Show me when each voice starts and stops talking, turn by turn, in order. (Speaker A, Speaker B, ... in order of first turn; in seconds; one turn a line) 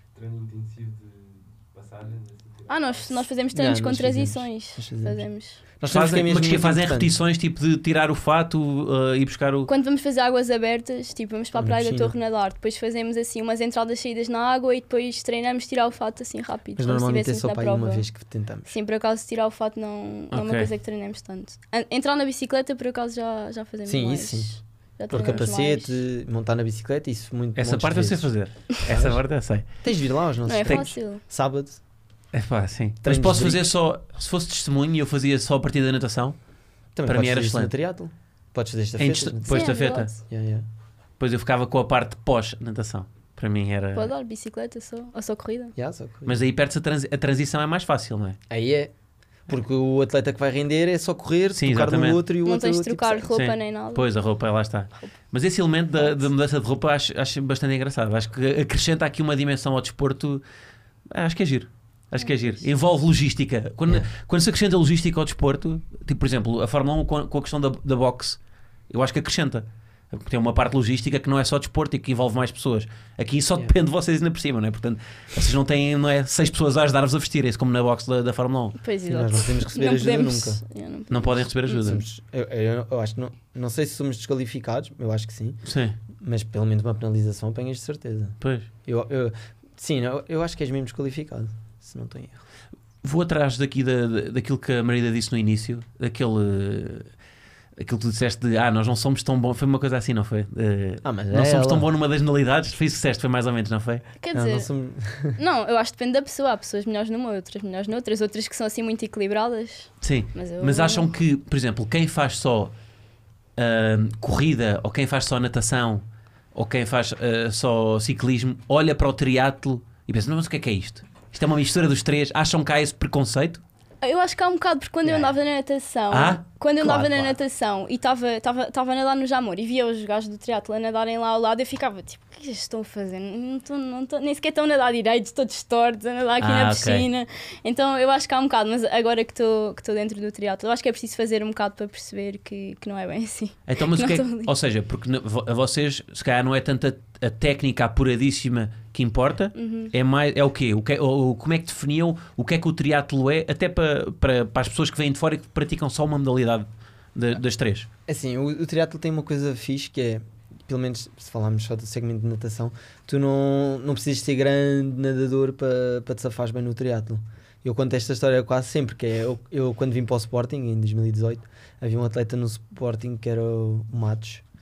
Speaker A: 0.1-3.3
Speaker B: 2.7-5.6
Speaker C: 3.5-5.2
Speaker C: 5.8-7.1
Speaker D: 5.9-9.7
Speaker B: 9.7-18.0
Speaker C: 11.6-12.1
Speaker C: 16.8-18.8
Speaker B: 18.7-26.0
Speaker D: 20.3-20.7
Speaker C: 23.8-24.5
Speaker C: 25.1-28.3
Speaker D: 27.6-29.6
Speaker C: 28.9-29.2
Speaker C: 29.8-31.8
Speaker B: 30.5-31.2
Speaker D: 32.3-36.4
Speaker C: 33.0-33.6
Speaker C: 37.0-40.6
Speaker D: 37.0-37.7
Speaker D: 39.0-40.1
Speaker B: 39.5-40.1
Speaker D: 41.2-44.1
Speaker B: 43.9-45.7
Speaker C: 45.8-46.4
Speaker D: 46.2-48.4
Speaker C: 48.5-48.9
Speaker C: 49.5-53.3
Speaker D: 51.5-52.2
Speaker B: 52.4-54.0
Speaker D: 53.3-60.4
Speaker D: 61.1-68.4
Speaker D: 68.9-78.8
Speaker B: 78.8-81.8
Speaker C: 79.0-80.6
Speaker D: 81.1-82.0
Speaker C: 81.8-85.6
Speaker D: 85.6-86.0
Speaker C: 86.2-92.4
Speaker D: 88.4-88.7
Speaker D: 93.0-97.1
Speaker D: 97.8-104.0
Speaker C: 101.0-101.9
Speaker B: 104.2-104.7
Speaker C: 104.3-105.4
Speaker B: 105.4-111.1
Speaker D: 110.0-112.7
Speaker D: 113.6-116.0
Speaker D: 116.5-123.6
Speaker B: 124.0-144.5
Speaker C: 125.0-125.3
Speaker D: 126.1-126.4
Speaker C: 126.8-127.4
Speaker D: 136.4-137.1
Speaker D: 143.7-157.9
Speaker B: 149.5-149.9
Speaker C: 158.1-174.4